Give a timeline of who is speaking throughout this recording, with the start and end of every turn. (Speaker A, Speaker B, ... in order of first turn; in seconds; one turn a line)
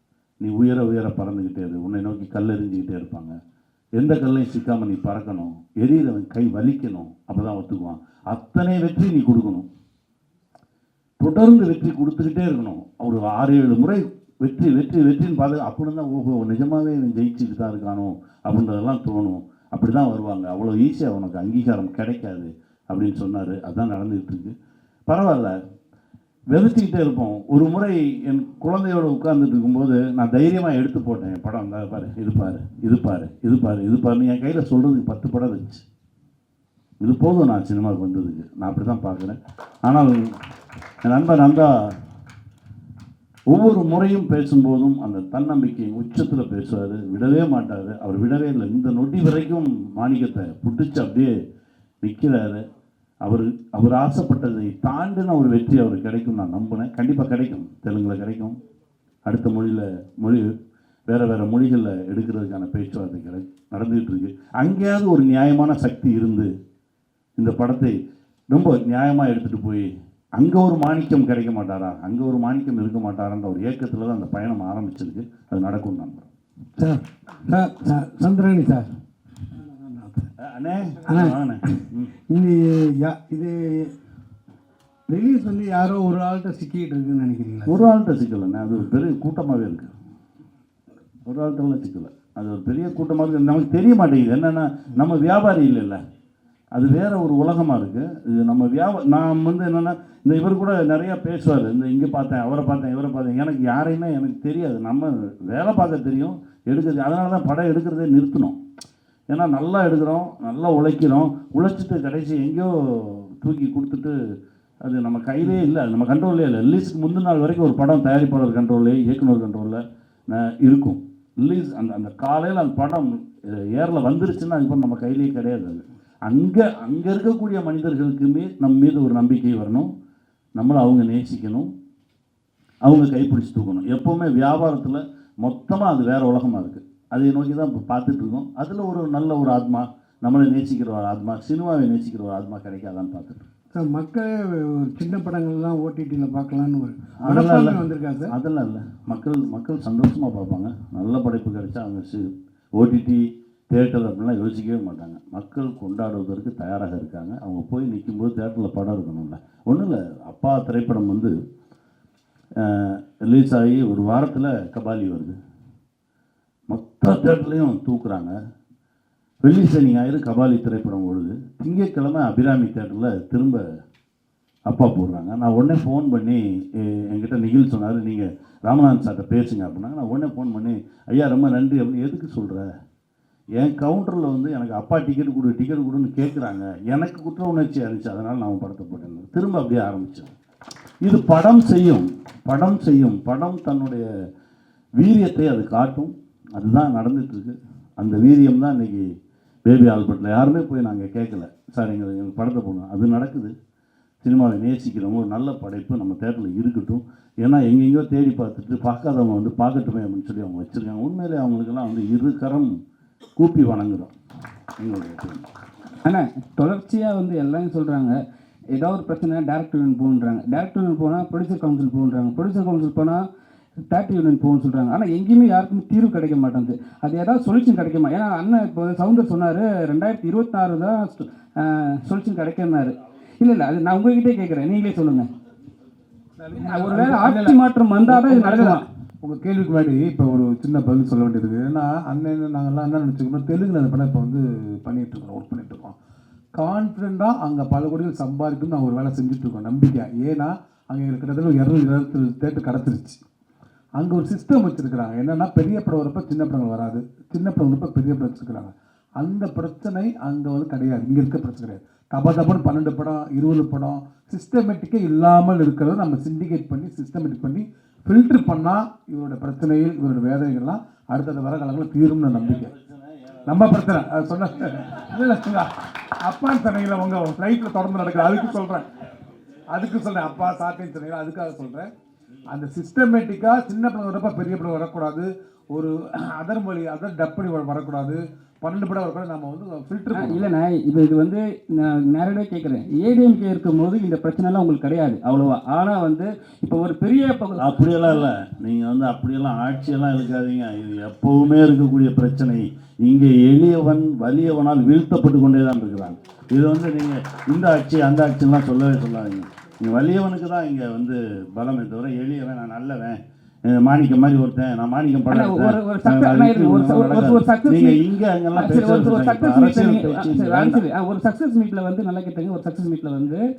Speaker A: 0.4-3.4
Speaker A: 4.0-9.7
Speaker A: 11.2-24.6
Speaker A: 25.1-25.6
Speaker A: 26.5-35.8
Speaker A: 37.0-40.3
Speaker A: 41.0-41.9
Speaker A: 43.5-51.3
Speaker A: 52.0-52.6
Speaker A: 53.2-58.5
Speaker A: 59.3-60.5
Speaker A: 61.1-66.5
Speaker A: 67.4-68.0
Speaker A: 68.5-76.3
Speaker B: 76.8-78.9
Speaker B: 79.6-80.3
Speaker A: 80.4-82.2
Speaker B: 82.3-83.9
Speaker B: 85.1-87.8
Speaker A: 87.7-89.9
Speaker A: 91.2-96.0
Speaker A: 96.7-108.6
Speaker A: 109.3-114.2
Speaker A: 114.8-119.8
Speaker A: 120.3-129.9
Speaker A: 130.6-131.7
Speaker A: 132.8-143.5
Speaker B: 143.7-148.3
Speaker A: 147.2-161.3
Speaker A: 162.6-165.4
Speaker A: 166.7-168.4
Speaker A: 169.4-173.7
Speaker A: 174.7-182.7
Speaker A: 183.6-190.3
Speaker A: 191.0-194.1
Speaker A: 195.0-199.1
Speaker A: 199.7-203.5
Speaker A: 204.2-212.7
Speaker A: 213.4-214.1
Speaker A: 214.8-215.5
Speaker C: 216.1-218.2
Speaker C: 218.7-223.2
Speaker C: 223.9-235.3
Speaker D: 236.4-246.0
Speaker C: 236.6-238.9
Speaker D: 246.6-253.2
Speaker D: 254.0-272.7
Speaker A: 272.4-273.8
Speaker D: 273.5-278.9
Speaker D: 279.7-281.9
Speaker D: 282.5-290.5
Speaker C: 290.1-298.3
Speaker A: 297.6-320.8
Speaker C: 315.3-323.4